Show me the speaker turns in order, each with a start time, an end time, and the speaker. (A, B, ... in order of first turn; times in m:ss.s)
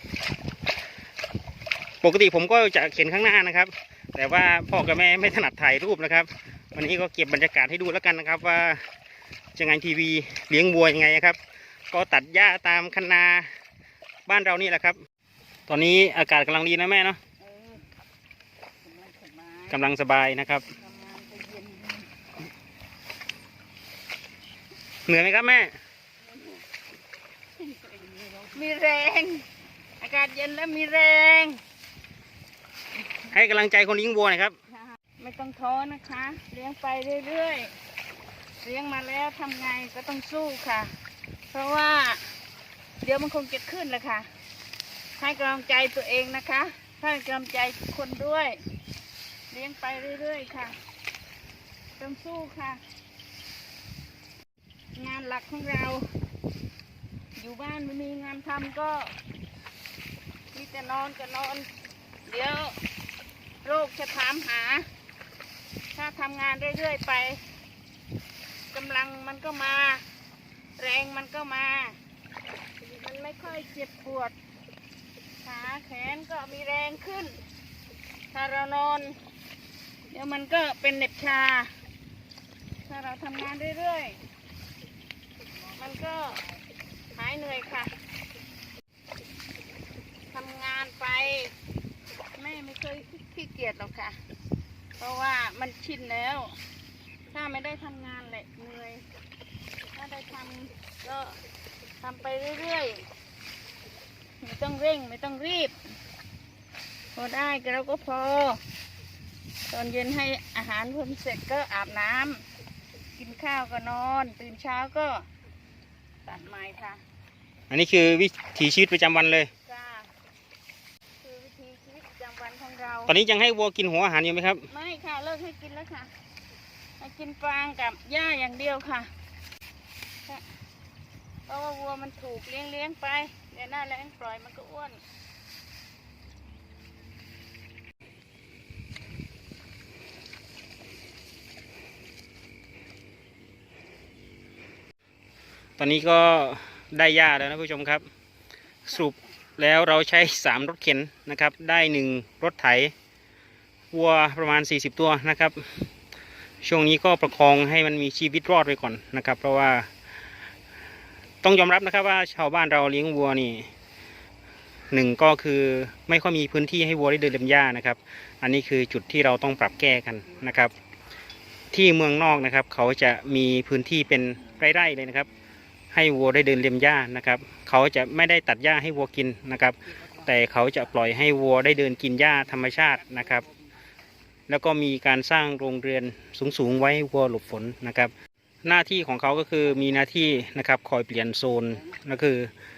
0:02.0-0:08.9 A
0:09.6-0:11.4 A
0:11.9-0:13.5 A
0:14.3-0:15.0 A
0:15.7-0:17.2 A
0:17.4-0:17.9 B
0:18.8-0:19.8 B
0:19.7-0:20.7 A
0:20.7-0:22.1 B
0:25.1-0:25.7 A
0:27.6-0:29.5 B
0:30.0-0:31.6 B
0:33.3-0:34.6 A
0:35.2-0:37.7 B
0:38.6-0:40.9 B
0:41.5-0:42.2 B
0:43.0-0:44.3 B
0:45.2-0:48.6 B
0:49.5-0:50.8 B
0:52.0-0:52.8 B
0:55.0-0:56.1 B
0:57.4-0:59.1 B
1:00.5-1:01.7 B
1:02.3-1:02.8 B
1:03.6-1:04.9 B
1:06.0-1:07.4 B
1:08.7-1:10.0 B
1:10.8-1:12.0 B
1:12.9-1:14.4 B
1:15.4-1:17.4 B
1:18.3-1:19.2 B
1:20.1-1:21.7 B
1:22.9-1:24.2 B
1:25.7-1:26.4 B
1:27.2-1:27.9 B
1:30.3-1:31.5 B
1:32.4-1:34.2 B
1:35.0-1:36.6 B
1:37.3-1:39.0 B
1:39.9-1:41.4 B
1:42.0-1:43.0 B
1:44.4-1:45.8 B
1:47.2-1:48.6 B
1:49.7-1:52.4 B
1:53.2-1:55.3 B
1:56.3-1:57.0 B
1:57.7-1:59.5 A
1:59.7-2:00.1 B
2:01.2-2:03.1 B
2:03.1-2:04.7 A
2:04.7-2:06.1 B
2:07.0-2:09.1 B
2:11.5-2:15.0 B
2:25.8-2:28.0 A
2:28.9-2:32.9 A
2:33.9-2:35.9 A
2:36.6-2:39.9 A
2:41.4-2:43.7 A
2:44.9-2:50.7 A
2:51.7-2:55.3 A
2:55.9-3:03.5 A
3:04.5-3:08.1 A
3:08.6-3:12.5 A